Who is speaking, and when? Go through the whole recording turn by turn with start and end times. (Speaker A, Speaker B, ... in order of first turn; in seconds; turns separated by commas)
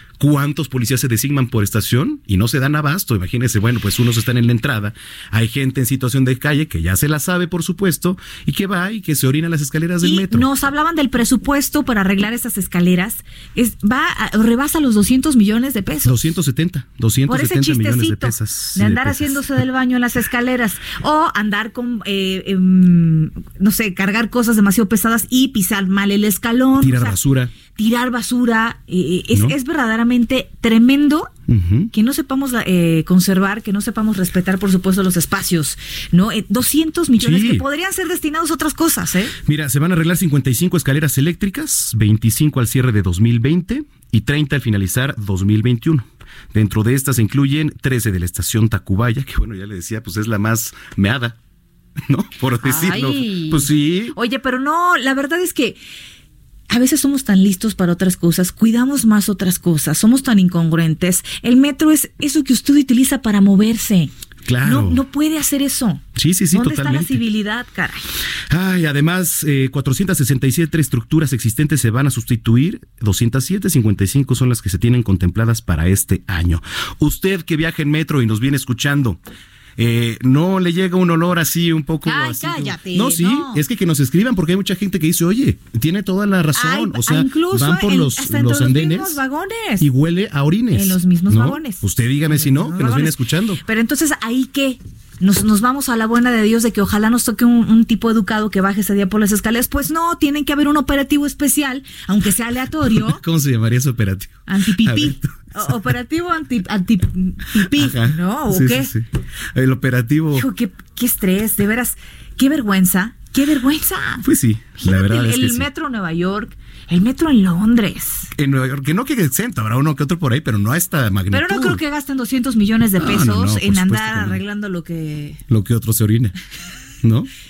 Speaker A: 0.2-10.5, Speaker B: 10.0-16.1, Speaker A: 16.0-19.5, Speaker B: 17.3-27.2, Speaker A: 26.8-27.5, Speaker B: 27.7-31.3, Speaker A: 31.5-31.9, Speaker B: 31.9-39.3, Speaker A: 37.2-37.6, Speaker A: 39.4-51.4, Speaker A: 52.0-54.1, Speaker B: 52.6-55.8, Speaker B: 56.7-64.1, Speaker A: 64.4-65.0, Speaker B: 64.6-68.1, Speaker A: 66.1-67.2, Speaker A: 68.5-79.2, Speaker A: 79.8-89.2, Speaker B: 82.0-83.6, Speaker B: 86.5-89.8, Speaker A: 89.8-93.6, Speaker B: 90.7-103.2, Speaker A: 102.9-105.8, Speaker B: 104.5-108.9, Speaker A: 107.6-110.5, Speaker B: 110.3-114.2, Speaker A: 114.2-115.7, Speaker B: 114.8-118.3, Speaker A: 118.3-121.8, Speaker B: 121.3-125.4, Speaker A: 123.0-124.4, Speaker A: 125.5-126.3, Speaker A: 127.0-127.3